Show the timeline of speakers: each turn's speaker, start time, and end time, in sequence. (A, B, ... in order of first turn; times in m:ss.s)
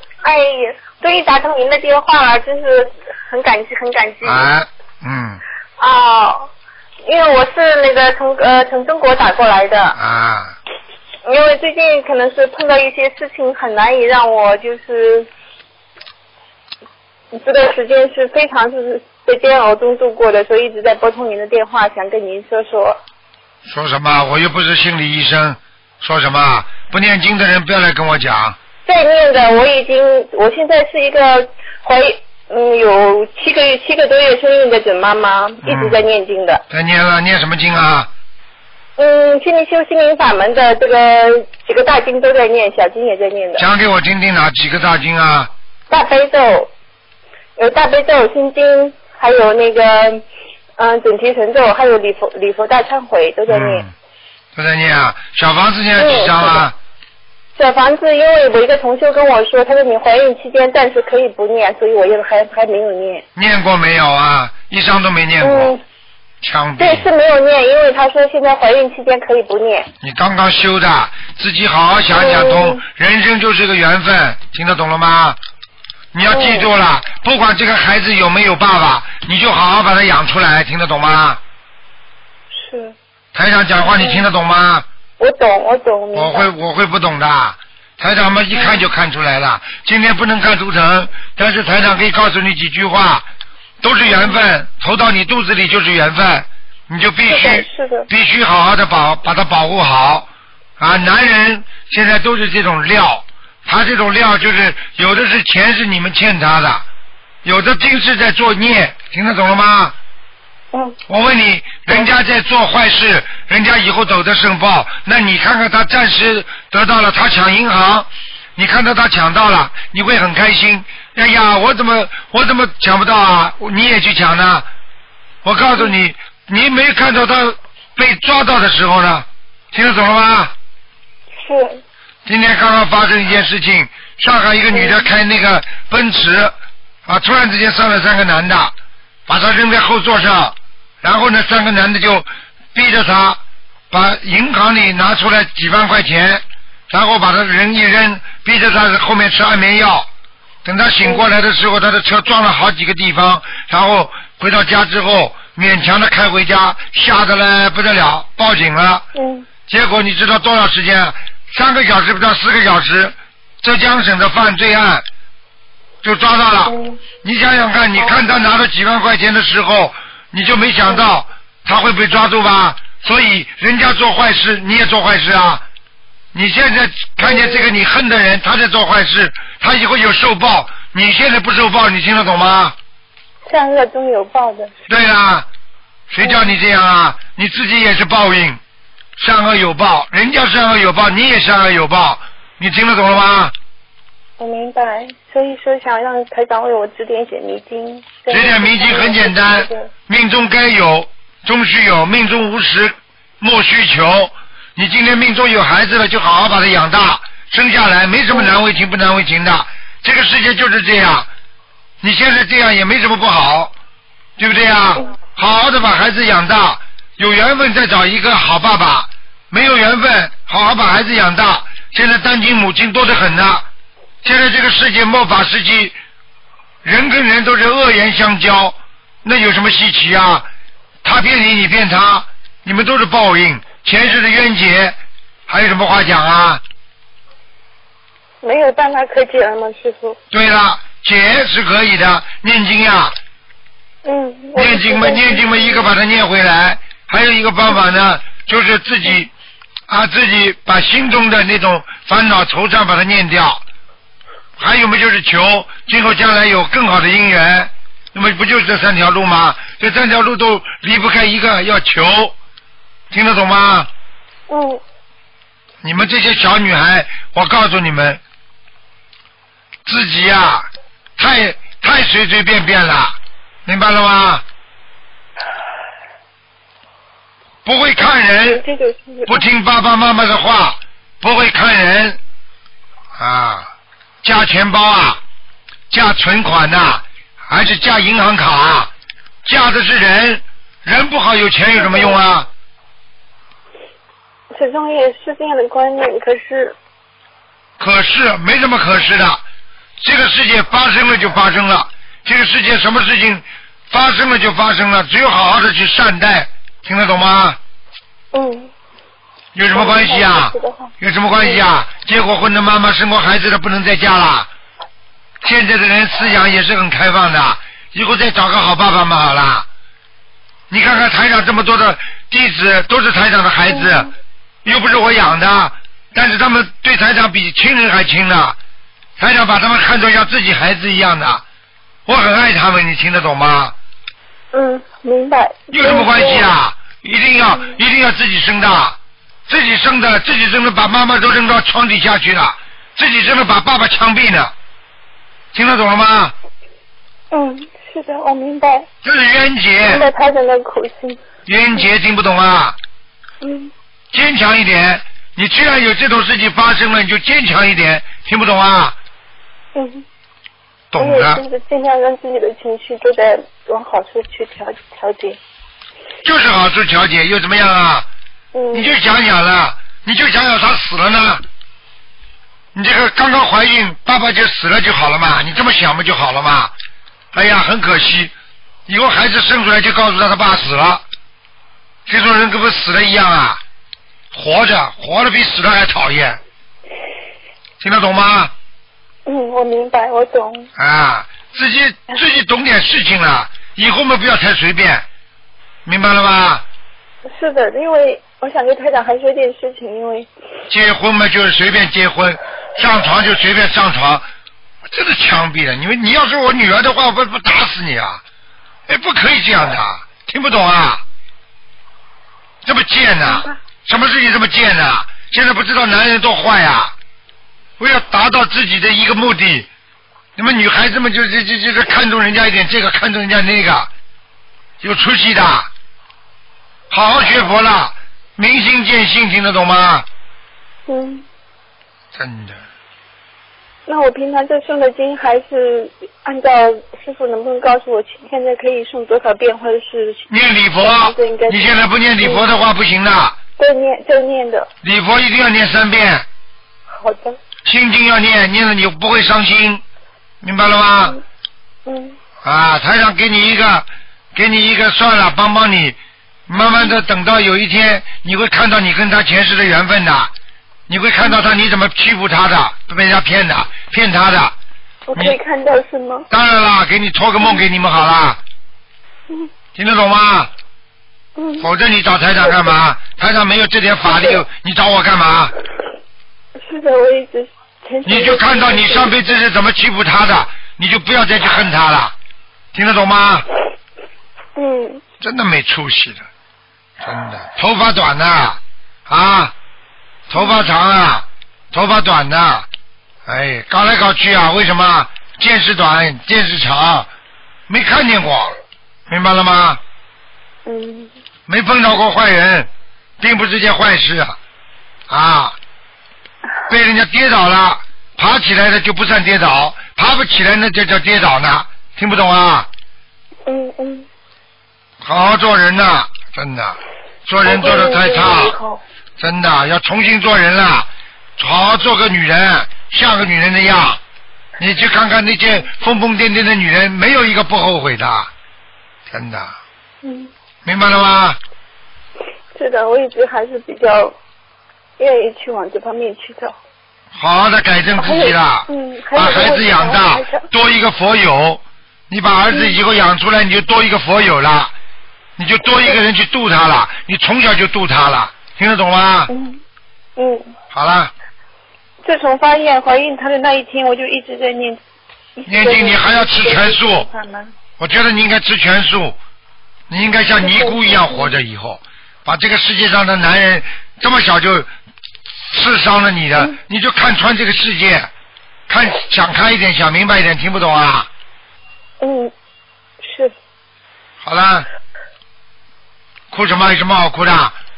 0:00.2-0:04.5 A
0:04.2-0:05.4 B
0:05.8-0:06.5 A
0:07.0-0:10.0 A
0:10.0-0:10.5 B
0:11.2-0:15.3 A
0:17.3-0:23.0 A
0:23.7-0:28.6 B
0:28.8-0:36.6 A
0:35.6-0:36.0 B
0:36.7-0:38.1 B
0:39.0-0:43.6 A
0:43.6-0:45.5 B
0:45.9-0:46.7 A
0:47.6-0:50.2 A
0:50.8-0:53.8 A
0:53.5-0:53.9 B
0:54.6-0:56.7 B
0:56.0-0:56.7 A
0:57.6-1:03.2 A
1:03.4-1:05.7 B
1:05.4-1:05.8 A
1:06.4-1:07.1 B
1:06.8-1:09.9 A
1:10.0-1:15.4 B
1:12.1-1:12.8 A
1:16.1-1:21.4 B
1:16.3-1:16.7 A
1:22.5-1:23.0 A
1:23.3-1:24.8 B
1:23.8-1:24.3 A
1:25.2-1:26.5 A
1:26.1-1:33.2 B
1:28.5-1:28.8 A
1:33.8-1:40.3 B
1:34.1-1:34.4 A
1:37.3-1:38.1 A
1:40.8-1:46.8 B
1:47.4-1:49.9 B
1:51.1-2:04.6 B
2:05.4-2:10.5 B
2:11.4-2:11.8 A
2:12.3-2:16.5 B
2:14.7-2:15.1 A
2:17.0-2:18.7 B
2:19.3-2:23.4 B
2:23.9-2:30.1 B
2:30.6-2:39.0 B
2:39.1-2:39.5 A
2:39.7-2:45.0 B
2:46.0-2:55.6 B
2:46.6-2:47.0 A
2:56.3-3:02.7 B
2:57.2-2:57.7 A
3:03.5-3:04.7 A
3:04.9-3:05.4 B
3:06.1-3:08.6 B
3:06.2-3:06.5 A
3:09.2-3:13.5 B
3:14.4-3:19.9 A
3:18.3-3:31.3 B
3:32.0-3:33.7 B
3:34.4-3:43.6 B
3:44.2-3:45.9 B
3:46.8-3:50.5 B
3:51.0-3:55.0 B
3:55.5-3:56.6 B
3:58.4-4:00.2 A
4:00.3-4:03.1 B
4:04.0-4:06.0 A
4:04.6-4:09.3 B
4:09.9-4:13.6 B
4:14.6-4:22.3 B
4:23.1-4:23.9 B
4:24.5-4:24.8 A
4:25.8-4:28.2 B
4:29.8-4:34.4 B
4:37.6-4:38.6 B
4:38.0-4:39.4 A
4:39.3-4:42.2 B
4:43.2-4:43.7 B
4:44.2-4:45.2 B
4:45.9-4:48.9 B
4:49.4-4:52.5 B
4:51.8-4:52.2 A
4:54.5-4:56.8 A
4:57.8-4:59.4 B
5:00.0-5:07.6 B
5:08.3-5:08.7 A
5:09.5-5:14.5 B
5:09.7-5:11.6 A
5:15.4-5:19.7 B
5:20.7-5:24.1 B
5:24.6-5:28.6 B
5:29.2-5:31.4 B
5:32.0-5:33.7 B
5:34.5-5:36.5 A
5:35.7-5:39.0 B
5:39.5-5:44.5 B
5:45.5-5:46.3 B
5:47.3-5:48.9 A
5:49.0-5:50.0 B
5:49.9-5:51.2 A
5:51.4-5:52.8 B
5:53.4-5:53.7 A
5:54.1-5:59.0 B
5:59.7-6:00.0 A
6:00.9-6:01.4 B
6:01.0-6:05.4 A
6:06.2-6:08.1 B
6:08.5-6:09.0 A
6:08.7-6:11.4 B
6:12.7-6:16.7 B
6:17.3-6:18.3 B
6:18.9-6:21.0 B
6:22.1-6:23.6 B
6:24.3-6:26.4 B
6:27.8-6:28.5 B
6:29.2-6:30.7 A
6:30.8-6:35.0 B
6:35.8-6:36.6 B
6:37.3-6:40.3 A
6:40.7-6:44.2 B
6:44.8-6:48.2 B
6:48.9-6:51.0 B
6:52.6-6:56.9 B
6:53.2-6:53.6 A
6:57.8-6:59.7 B
7:00.4-7:03.9 B
7:04.8-7:05.7 B
7:06.9-7:10.0 B
7:10.9-7:11.2 A
7:12.1-7:12.6 B
7:13.9-7:20.2 A
7:20.3-7:23.4 B
7:20.8-7:22.4 A
7:23.6-7:24.7 A
7:24.8-7:26.2 B
7:27.0-7:27.4 A
7:27.6-7:29.8 B
7:30.4-7:31.2 B
7:31.8-7:32.2 A
7:32.4-7:36.0 B
7:36.5-7:40.3 B
7:36.6-7:37.0 A
7:40.9-7:44.5 B
7:45.1-7:46.3 A
7:46.3-7:48.4 B
7:49.8-7:50.5 B
7:51.4-7:51.6 A
7:51.6-7:55.5 B
7:54.1-7:54.4 A
7:56.6-7:59.2 A
7:58.0-8:02.1 B
8:02.7-8:03.4 B
8:04.6-8:05.0 A
8:05.2-8:06.2 B
8:07.0-8:09.5 B
8:10.3-8:12.6 B
8:10.4-8:10.7 A
8:13.2-8:17.1 B
8:17.7-8:18.5 B
8:19.1-8:19.8 B
8:20.6-8:21.1 A
8:21.5-8:22.7 B
8:23.2-8:24.3 B
8:25.1-8:25.6 B
8:26.7-8:32.7 B
8:33.4-8:34.1 A
8:35.0-8:38.5 B
8:37.4-8:38.8 A
8:39.2-8:44.0 B
8:44.6-8:48.3 B
8:49.1-8:49.5 B
8:50.0-8:50.3 A
8:50.6-8:51.4 B
8:52.6-8:54.2 A
8:55.0-8:56.6 A
8:57.2-9:04.7 B
8:58.0-9:00.4 A
9:02.5-9:02.8 A
9:05.4-9:09.3 B
9:09.3-9:09.6 A
9:10.2-9:10.5 A
9:10.7-9:11.1 B
9:12.0-9:14.8 A
9:15.4-9:17.5 A
9:15.4-9:17.1 B
9:17.8-9:19.2 B
9:19.9-9:24.7 B
9:20.4-9:21.4 A
9:25.5-9:28.1 B
9:28.7-9:31.1 B
9:32.0-9:32.3 A
9:33.0-9:33.3 A
9:34.2-9:34.7 B
9:36.3-9:37.5 B